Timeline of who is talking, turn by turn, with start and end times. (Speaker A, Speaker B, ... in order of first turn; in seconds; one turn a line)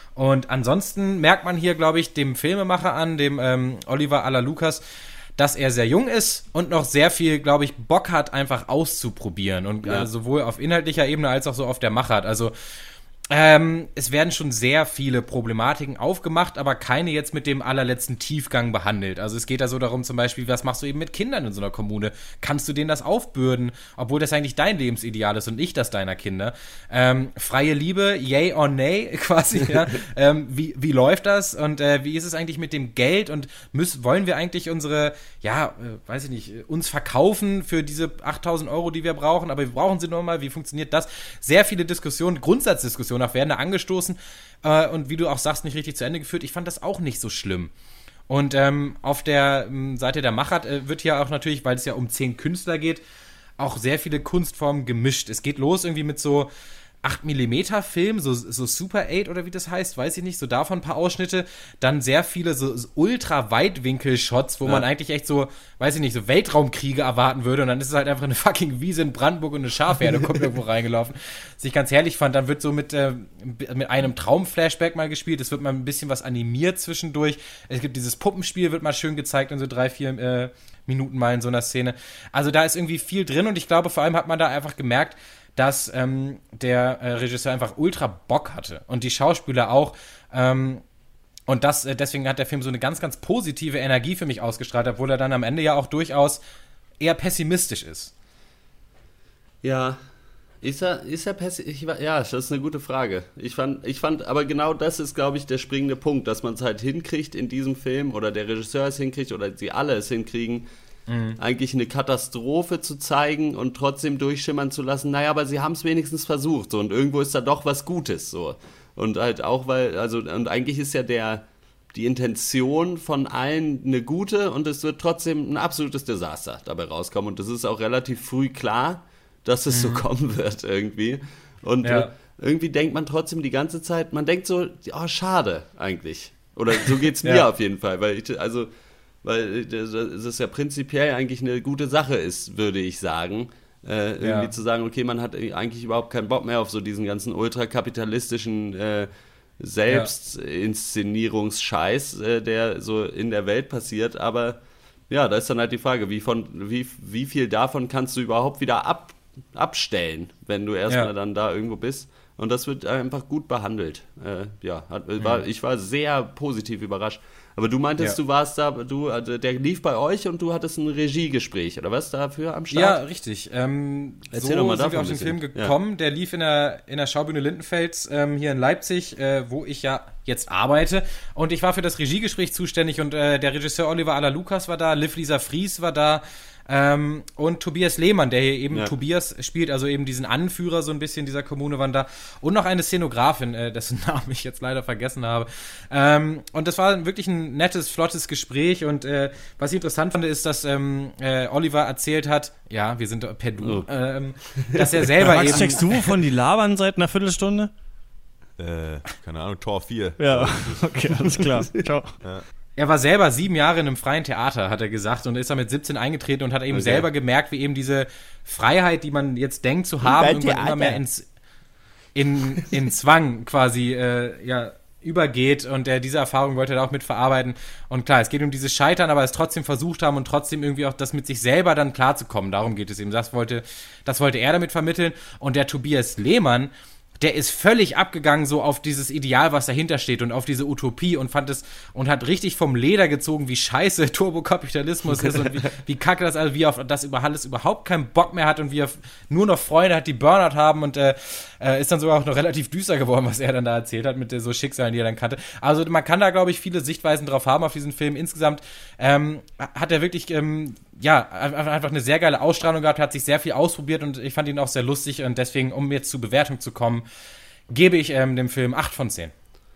Speaker A: 0.1-4.8
Speaker A: 5.4-12.5
Speaker A: 13.3-47.7
Speaker A: 48.3-53.0
Speaker A: 53.6-56.5
Speaker A: 57.0-90.8
Speaker A: 91.5-96.4
Speaker A: 97.0-98.1
Speaker B: 99.6-100.0
Speaker B: 100.6-110.7
Speaker A: 111.1-111.4
Speaker B: 111.4-138.7
Speaker A: 129.7-130.0
Speaker A: 131.8-132.1
Speaker B: 139.2-149.1
Speaker A: 144.2-144.5
Speaker B: 149.6-173.0
Speaker A: 165.2-165.4
Speaker A: 172.7-206.0
Speaker B: 174.3-175.7
Speaker B: 203.6-203.9
Speaker B: 204.5-205.7
Speaker C: 205.2-207.7
Speaker D: 208.6-211.0
Speaker C: 210.2-212.2
Speaker A: 212.8-221.3
Speaker B: 216.7-217.1
Speaker D: 220.0-221.0
Speaker A: 222.1-267.0
Speaker B: 245.2-245.7
Speaker A: 267.7-269.3